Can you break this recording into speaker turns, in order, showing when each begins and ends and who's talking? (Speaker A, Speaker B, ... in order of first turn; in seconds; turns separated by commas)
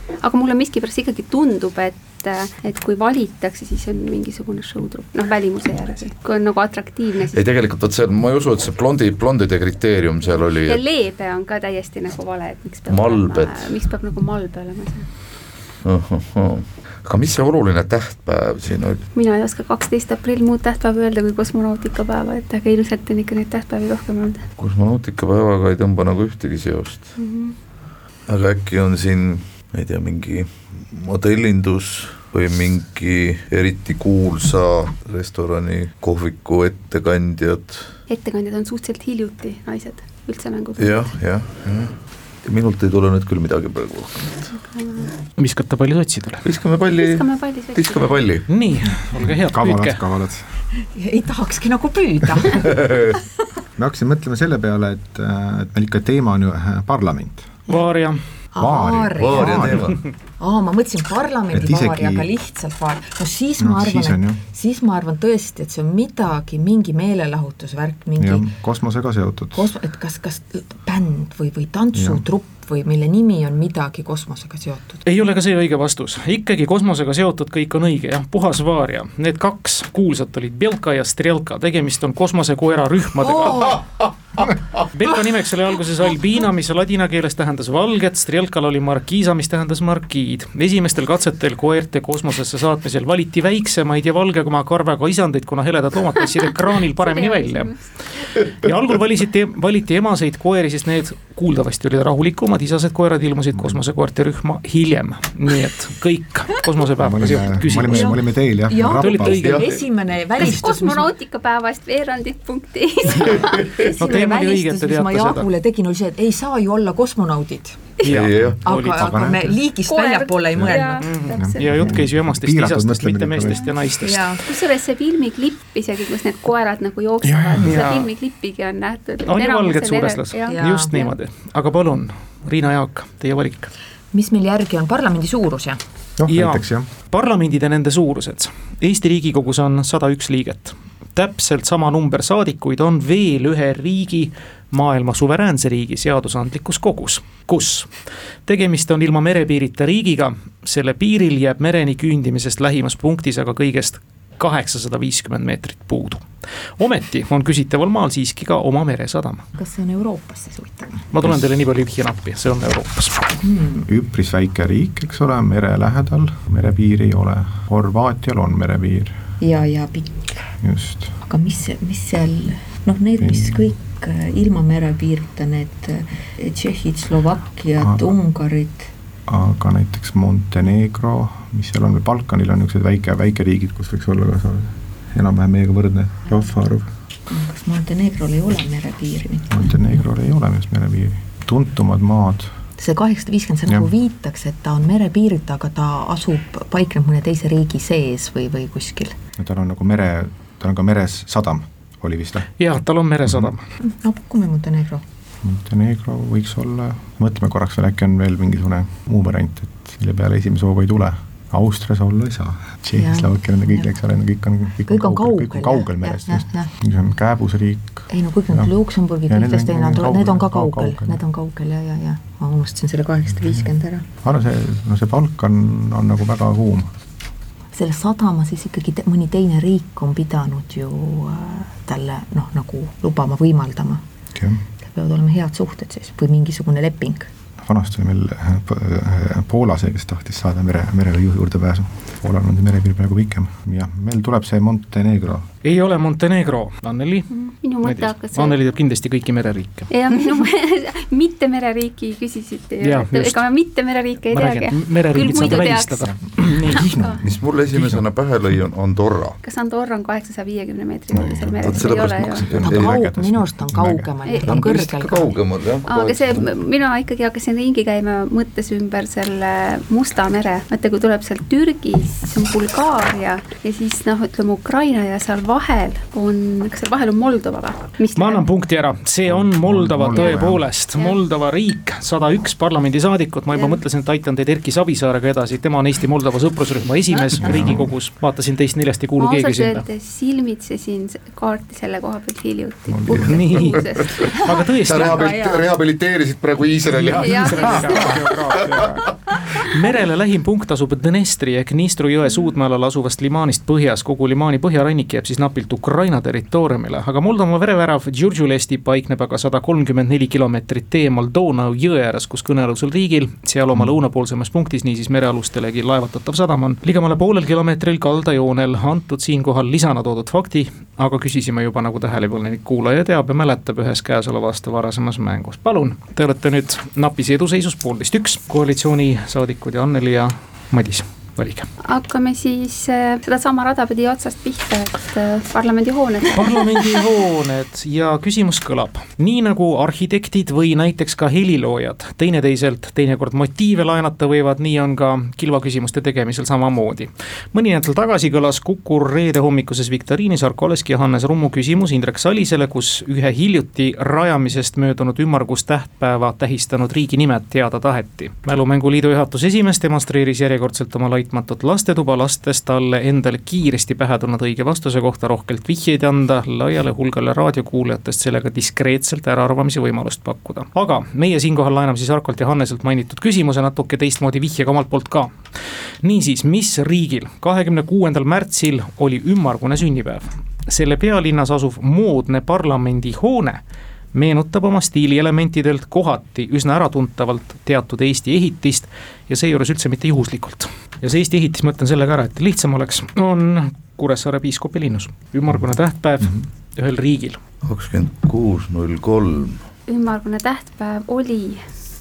Speaker A: 0.2-7.4, Speaker B: 7.3-10.8, Speaker A: 10.2-15.1, Speaker B: 12.9-13.8, Speaker B: 15.8-19.1, Speaker A: 19.1-24.4, Speaker B: 24.6-27.1, Speaker A: 27.2-27.6, Speaker B: 28.3-37.9, Speaker A: 38.1-41.1, Speaker B: 40.8-44.6, Speaker A: 44.7-45.1, Speaker C: 45.4-46.5, Speaker B: 46.4-47.2, Speaker A: 47.0-48.2, Speaker B: 47.8-48.5, Speaker C: 48.5-50.0, Speaker D: 49.1-50.5, Speaker E: 50.9-53.2, Speaker B: 52.6-53.2, Speaker D: 53.8-57.5, Speaker C: 57.7-58.2, Speaker E: 58.5-68.5, Speaker D: 58.6-60.0, Speaker B: 59.2-60.0, Speaker D: 61.5-62.3, Speaker D: 63.6-64.4, Speaker D: 68.2-69.8, Speaker E: 69.5-75.0, Speaker D: 72.0-72.2, Speaker C: 75.0-83.8, Speaker E: 83.3-83.8, Speaker C: 84.8-97.8, Speaker A: 96.5-98.0, Speaker C: 98.4-108.2, Speaker D: 103.5-103.8, Speaker D: 107.0-109.5, Speaker E: 107.8-111.1, Speaker C: 108.8-109.8, Speaker A: 110.4-113.7, Speaker B: 113.4-113.8, Speaker E: 113.7-117.9, Speaker C: 114.0-115.5, Speaker C: 118.0-119.2, Speaker B: 118.1-118.6, Speaker E: 118.6-121.1, Speaker D: 118.8-119.6, Speaker A: 119.9-121.9, Speaker C: 121.0-124.3, Speaker D: 121.4-123.7, Speaker E: 124.0-124.4, Speaker A: 124.5-131.1, Speaker D: 127.2-127.8, Speaker C: 127.6-128.1, Speaker C: 129.3-133.7, Speaker E: 130.5-130.9, Speaker E: 134.1-135.8, Speaker D: 136.2-136.9, Speaker C: 136.3-147.9, Speaker C: 148.5-156.3, Speaker C: 156.8-159.4, Speaker E: 159.6-161.0, Speaker C: 161.1-163.4, Speaker E: 163.4-163.8, Speaker D: 163.8-169.2, Speaker E: 169.4-170.4, Speaker D: 170.6-171.2, Speaker E: 171.3-178.9, Speaker D: 173.2-173.7, Speaker D: 177.8-178.1, Speaker D: 179.3-186.9, Speaker E: 187.3-189.6, Speaker D: 189.5-192.5, Speaker E: 192.8-199.2, Speaker D: 199.4-202.5, Speaker C: 202.6-203.6, Speaker D: 203.3-203.5, Speaker E: 203.8-205.0, Speaker D: 205.4-218.7, Speaker E: 213.0-213.9, Speaker E: 214.9-216.7, Speaker E: 218.1-224.1, Speaker D: 219.3-221.2, Speaker D: 223.4-223.7, Speaker D: 224.2-226.9, Speaker E: 227.7-234.0, Speaker D: 234.3-234.6, Speaker E: 234.8-237.3, Speaker D: 237.6-245.5, Speaker C: 245.6-249.9, Speaker A: 247.4-248.6, Speaker A: 249.9-257.2, Speaker C: 252.8-253.4, Speaker C: 254.3-256.9, Speaker D: 255.3-258.0, Speaker B: 257.2-259.4, Speaker A: 259.4-262.8, Speaker D: 261.1-264.1, Speaker B: 261.6-262.9, Speaker E: 262.7-265.4, Speaker A: 264.2-264.6, Speaker B: 264.4-266.5, Speaker A: 265.9-278.4, Speaker C: 278.1-289.9, Speaker D: 279.3-280.7, Speaker A: 280.1-280.4, Speaker A: 283.5-283.8, Speaker A: 287.1-287.7, Speaker D: 287.4-287.9, Speaker A: 289.2-294.5, Speaker D: 292.9-293.3, Speaker C: 293.1-295.3, Speaker B: 294.8-299.0, Speaker E: 295.0-295.6, Speaker C: 296.9-299.0, Speaker A: 297.1-298.6, Speaker C: 299.5-331.7, Speaker A: 331.8-337.0, Speaker C: 336.3-375.4, Speaker C: 376.0-383.6, Speaker C: 384.1-397.4, Speaker B: 397.6-399.6, Speaker A: 399.9-401.6